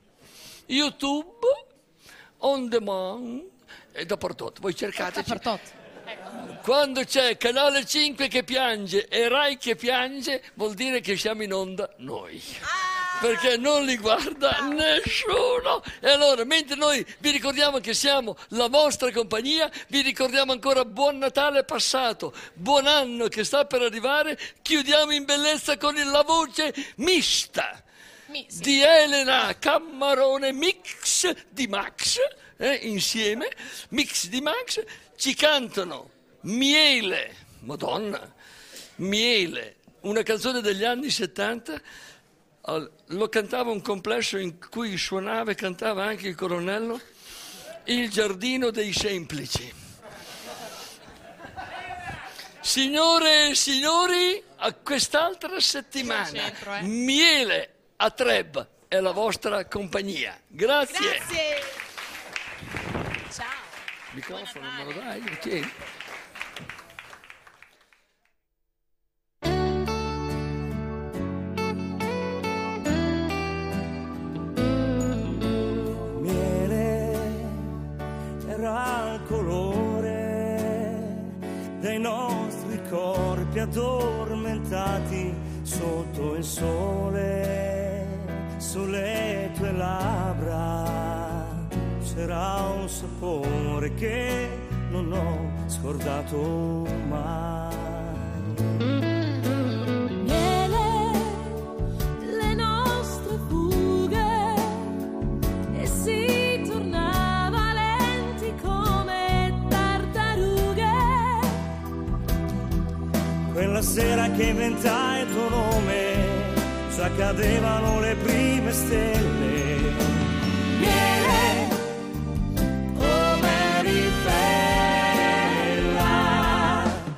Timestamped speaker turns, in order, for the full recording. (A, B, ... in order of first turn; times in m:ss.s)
0:00.7-0:01.6 A
0:02.4-0:05.4 A
0:05.0-0:05.7 B
0:06.4-0:12.6 A
0:12.8-0:13.3 B
0:13.1-0:27.8 A
0:28.3-0:28.8 B
0:28.5-0:38.3 A
0:39.0-0:41.8 A
0:42.6-0:47.0 A
0:47.8-0:49.7 A
0:52.6-1:01.3 A
0:56.0-0:56.9 B
1:00.9-1:01.7 B
1:03.3-1:03.7 B
1:04.1-1:05.7 A
1:04.3-1:05.0 B
1:16.1-1:17.6 C
1:18.4-1:38.6 C
1:40.2-1:41.6 D
1:42.2-1:44.9 D
1:45.7-1:51.6 D
1:53.5-2:00.2 C
2:00.8-2:01.7 C
2:03.0-2:06.9 C